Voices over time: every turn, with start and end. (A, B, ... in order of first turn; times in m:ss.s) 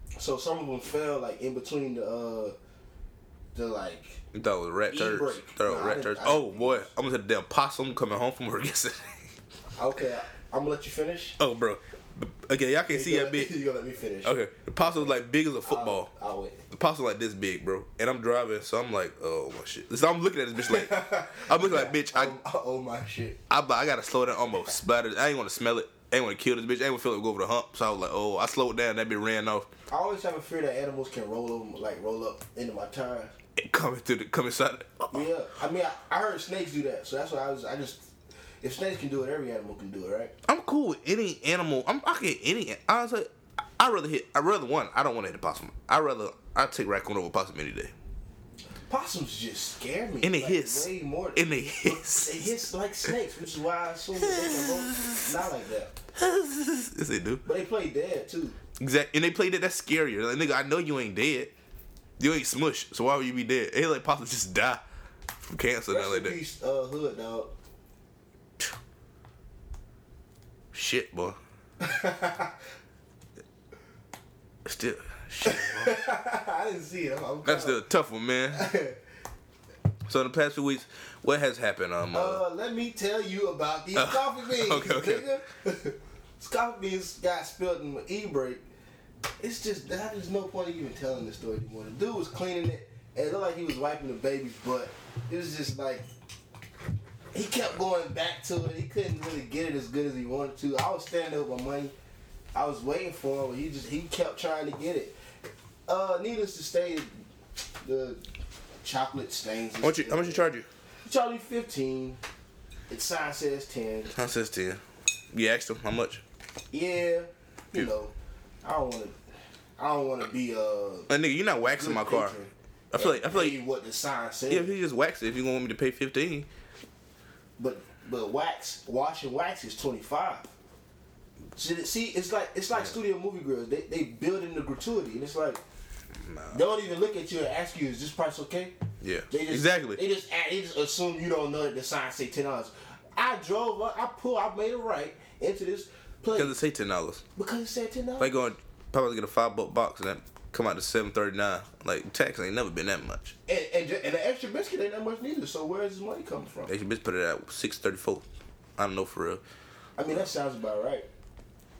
0:00.2-0:02.6 A
0:03.5-0:04.2 A
0:04.3-0:09.3 B
0:04.9-0:06.9 A
0:09.8-0:11.4 A
0:11.4-0:13.5 B
0:12.9-0:16.6 A
0:14.2-0:16.1 B
0:16.7-0:22.3 B
0:20.6-0:23.4 A
0:23.5-0:29.7 B
0:29.9-0:33.3 A
0:33.6-0:35.2 B
0:35.1-0:38.1 A
0:38.6-0:40.3 A
0:40.4-0:47.9 B
0:48.9-0:55.9 A
0:50.2-0:52.5 B
0:54.2-0:55.3 B
0:56.1-0:57.4 B
0:57.4-0:58.6 A
0:58.8-1:01.5 B
1:02.2-1:04.8 B
1:05.4-1:06.4 B
1:05.9-1:07.5 A
1:10.7-1:11.4 B
1:11.8-1:12.6 A
1:14.6-1:16.0 B
1:15.4-1:17.8 A
1:17.4-1:18.7 B
1:18.5-1:19.0 A
1:20.0-1:22.4 B
1:22.1-1:28.6 A
1:23.9-1:25.3 B
1:29.4-1:36.1 A
1:37.3-1:41.9 A
1:42.5-1:45.2 A
1:45.9-1:47.1 A
1:47.8-1:48.2 A
1:48.8-1:50.5 A
1:49.8-1:50.6 B
1:51.0-1:52.2 A
1:52.9-1:54.1 A
1:54.1-1:56.2 B
1:56.7-1:59.1 A
1:59.8-2:04.8 A
2:01.1-2:02.3 B
2:02.9-2:03.6 B
2:04.5-2:06.5 B
2:07.6-2:10.5 A
2:11.6-2:15.6 A
2:16.2-2:16.6 B
2:16.5-2:18.7 A
2:19.0-2:20.0 B
2:19.3-2:26.6 A
2:26.4-2:27.2 B
2:27.4-2:28.4 A
2:28.2-2:33.4 B
2:33.5-2:36.7 A
2:36.7-2:38.2 B
2:38.8-2:39.4 B
2:40.0-2:41.1 A